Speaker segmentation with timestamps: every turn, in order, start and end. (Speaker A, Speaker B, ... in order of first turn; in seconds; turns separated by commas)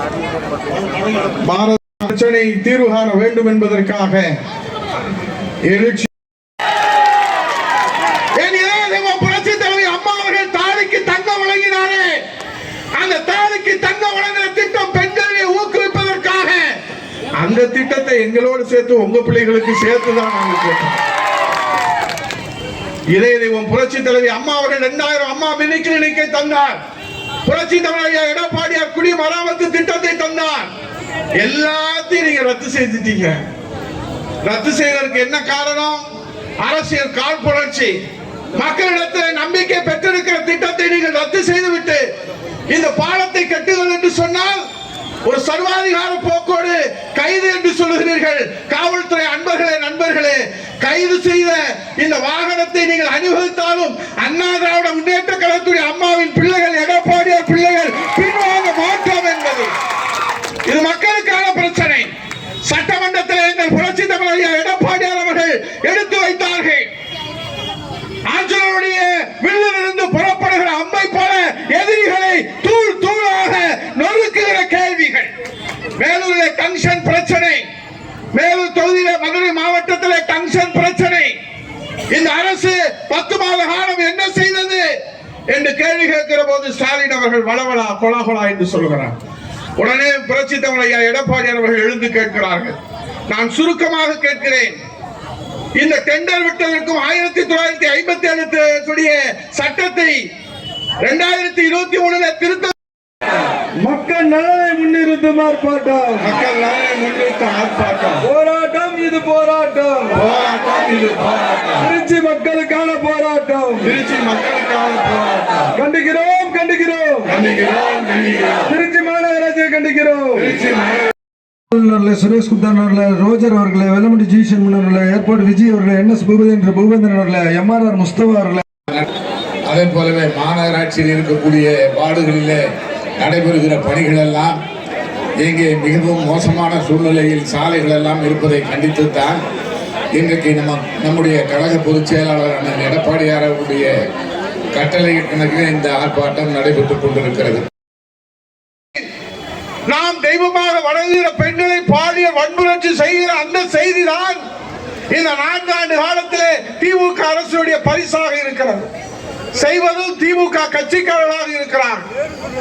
Speaker A: 1.4-4.3, Speaker A: 5.7-6.1, Speaker A: 8.3-12.2, Speaker A: 13.0-16.7, Speaker A: 17.4-20.9, Speaker A: 23.1-26.8, Speaker A: 27.4-30.7, Speaker A: 31.4-33.4, Speaker A: 34.4-36.1, Speaker A: 36.6-38.0, Speaker A: 38.5-42.0, Speaker A: 42.7-44.6, Speaker A: 45.2-59.7, Speaker A: 60.7-62.1, Speaker A: 62.6-66.8, Speaker A: 68.3-75.3, Speaker A: 76.0-77.7, Speaker A: 78.3-81.3, Speaker A: 82.1-84.9, Speaker A: 85.5-89.1, Speaker A: 89.8-92.8, Speaker A: 93.3-94.8, Speaker A: 95.8-100.2, Speaker A: 101.0-102.7, Speaker B: 103.8-106.3, Speaker A: 106.2-108.3, Speaker B: 108.2-110.1, Speaker A: 110.1-111.9, Speaker B: 111.8-113.9, Speaker A: 113.8-115.7, Speaker B: 115.8-117.3, Speaker A: 117.3-118.6, Speaker B: 118.7-120.5, Speaker A: 120.4-121.0, Speaker B: 121.7-128.6, Speaker C: 129.7-132.6, Speaker C: 133.2-134.6, Speaker C: 135.4-139.4, Speaker C: 140.2-143.9, Speaker C: 144.7-147.6, Speaker A: 149.9-154.4, Speaker A: 155.1-158.9, Speaker A: 159.5-162.0